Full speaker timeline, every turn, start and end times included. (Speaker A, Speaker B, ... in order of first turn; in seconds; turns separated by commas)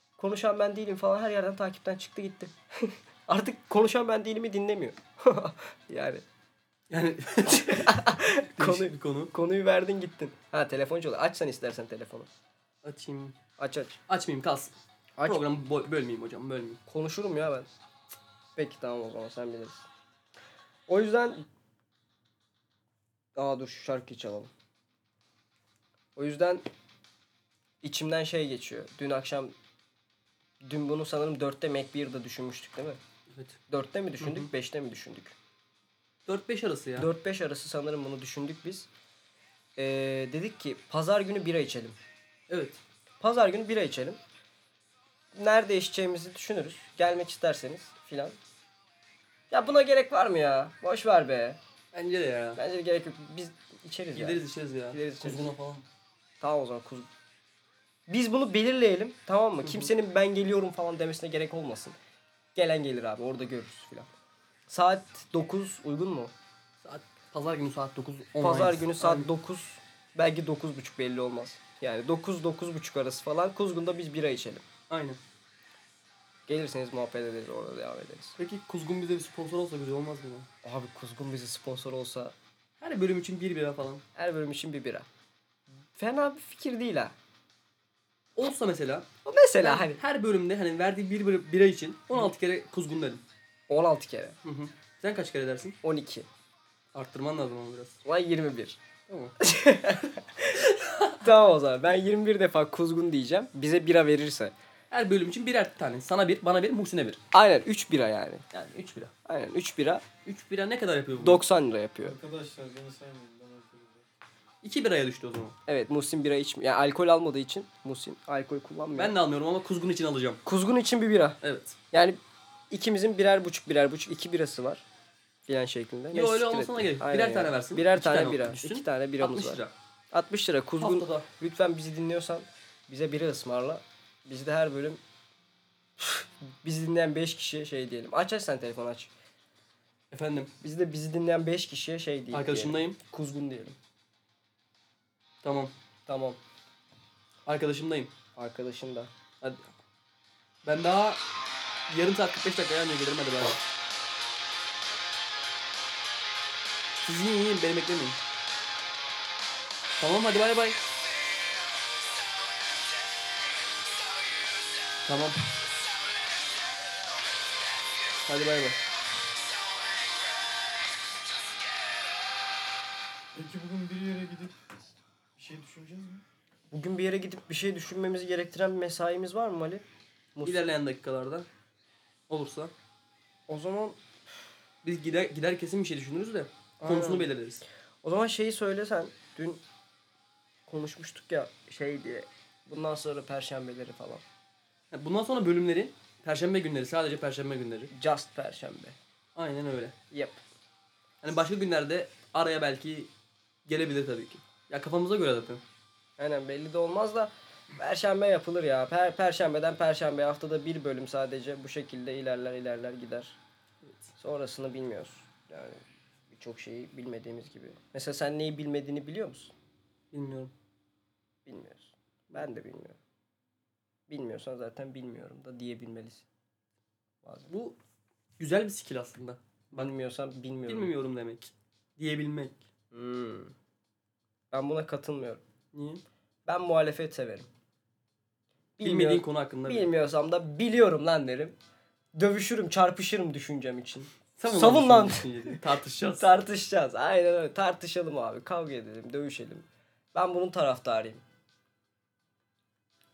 Speaker A: 0.2-6.2, Speaker B: 6.9-9.3, Speaker A: 7.7-12.3, Speaker B: 12.8-13.3, Speaker A: 13.6-14.0, Speaker B: 14.1-14.7, Speaker A: 15.2-15.4, Speaker B: 15.2-16.8, Speaker A: 16.9-17.7, Speaker A: 18.6-19.9, Speaker A: 20.9-21.4, Speaker A: 23.3-24.5, Speaker A: 26.1-26.6, Speaker A: 27.8-29.5, Speaker A: 30.6-33.0, Speaker B: 33.3-33.6, Speaker A: 33.7-35.3, Speaker B: 34.2-34.5, Speaker B: 36.2-37.1, Speaker A: 37.0-38.9, Speaker A: 39.8-42.0, Speaker B: 42.5-42.8, Speaker A: 43.2-44.2, Speaker A: 45.3-48.4, Speaker A: 49.5-51.6, Speaker B: 51.9-52.6, Speaker A: 52.5-55.5, Speaker B: 54.1-55.9, Speaker A: 56.4-57.1, Speaker A: 58.1-62.0, Speaker B: 59.6-59.9, Speaker A: 62.5-64.1, Speaker A: 64.7-66.3, Speaker B: 66.8-69.3, Speaker A: 68.4-74.6, Speaker B: 74.9-75.2, Speaker A: 76.5-78.3, Speaker B: 78.4-80.5, Speaker A: 80.6-82.3, Speaker B: 82.8-84.0, Speaker A: 84.2-85.0, Speaker A: 85.9-87.1, Speaker B: 88.3-89.1, Speaker A: 89.2-90.0, Speaker B: 89.6-93.2, Speaker A: 93.7-94.3, Speaker B: 94.4-95.8, Speaker A: 95.8-96.3, Speaker B: 96.9-98.0, Speaker A: 98.0-98.8, Speaker B: 99.1-99.3, Speaker A: 99.4-100.6, Speaker B: 100.5-101.2, Speaker A: 101.2-104.5, Speaker B: 104.9-107.2, Speaker A: 107.3-108.4, Speaker B: 108.5-109.1, Speaker A: 109.2-110.0, Speaker B: 110.2-111.4, Speaker A: 111.2-112.2, Speaker C: 112.0-114.1, Speaker B: 114.6-115.5, Speaker A: 115.7-119.1, Speaker B: 118.9-120.4, Speaker A: 120.5-121.4, Speaker B: 121.4-121.8, Speaker A: 121.9-122.2, Speaker A: 122.7-124.8, Speaker A: 125.5-135.0, Speaker B: 126.1-129.7, Speaker B: 130.8-131.3, Speaker A: 136.0-139.1, Speaker B: 140.1-140.5, Speaker A: 140.6-143.8, Speaker B: 142.3-143.0, Speaker B: 145.4-145.7, Speaker A: 146.1-146.4, Speaker B: 147.4-148.1, Speaker A: 148.3-149.1, Speaker B: 150.6-151.2, Speaker B: 151.9-153.6, Speaker B: 156.9-158.2, Speaker B: 160.0-160.8, Speaker B: 165.0-165.6, Speaker B: 168.2-168.8, Speaker C: 173.3-174.6, Speaker C: 175.3-176.2, Speaker A: 176.7-179.8, Speaker A: 180.3-180.7, Speaker B: 180.4-181.5, Speaker B: 182.3-182.7, Speaker A: 183.5-184.0, Speaker B: 184.8-187.6, Speaker A: 186.8-187.3, Speaker A: 188.0-189.6, Speaker A: 190.7-194.2, Speaker B: 194.9-197.9, Speaker A: 197.9-198.9, Speaker B: 199.3-199.9, Speaker A: 200.1-200.4, Speaker B: 201.2-203.1, Speaker B: 203.7-205.6, Speaker A: 206.2-213.4, Speaker A: 214.2-215.8, Speaker A: 216.3-219.5, Speaker B: 220.1-220.5, Speaker A: 221.4-223.0, Speaker A: 224.1-226.2, Speaker A: 227.2-227.5, Speaker B: 227.5-227.8, Speaker B: 228.4-229.9, Speaker A: 229.7-230.9, Speaker B: 230.7-232.6, Speaker A: 232.9-233.5, Speaker A: 234.5-235.4, Speaker B: 235.7-236.0, Speaker A: 236.4-237.5, Speaker A: 238.8-241.5, Speaker B: 238.8-239.9, Speaker A: 242.1-251.2, Speaker B: 244.4-246.3